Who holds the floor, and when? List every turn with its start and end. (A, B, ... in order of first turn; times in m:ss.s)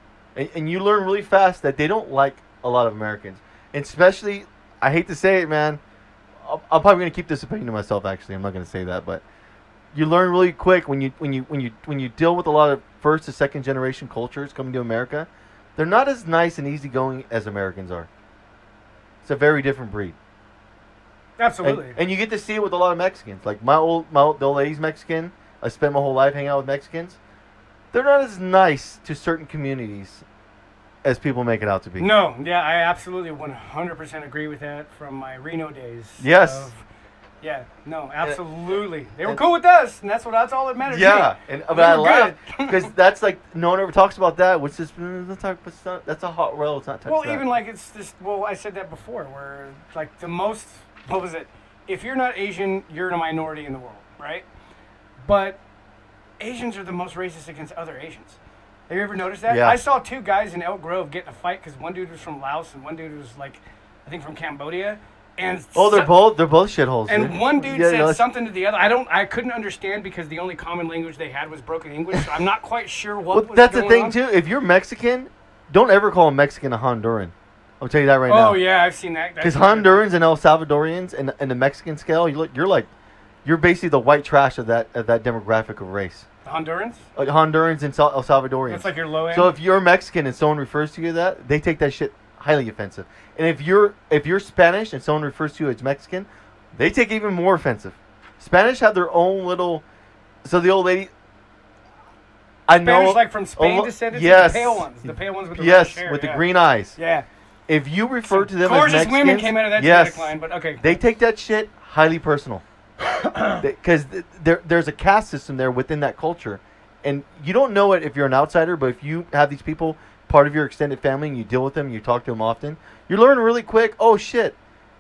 0:00.4-0:05.8 A
0:06.4-0:09.2 A
0:09.9-0:18.1 A
0:19.2-0:20.2 A
0:21.4-0:22.0 B
0:21.6-0:27.2 A
0:27.9-0:30.2 A
0:31.0-0:32.1 A
0:32.0-0:36.8 B
0:36.2-0:36.7 A
0:37.4-0:42.9 B
0:40.9-0:47.4 A
0:47.0-0:54.5 B
0:55.2-0:55.6 B
0:56.4-0:58.4 B
0:58.9-1:06.1 B
0:59.5-0:59.8 A
1:05.8-1:08.2 A
1:07.1-1:14.2 B
1:13.3-1:18.6 A
1:18.3-1:20.0 B
1:19.4-1:22.9 A
1:23.4-1:26.3 A
1:26.4-1:27.1 B
1:27.2-1:39.8 A
1:28.7-1:29.5 B
1:40.4-1:41.1 A
1:42.7-1:47.0 A
1:42.7-1:46.4 B
1:47.0-1:47.3 B
1:47.7-1:52.6 A
1:48.3-1:51.0 B
1:53.0-1:53.6 B
1:53.6-2:04.6 A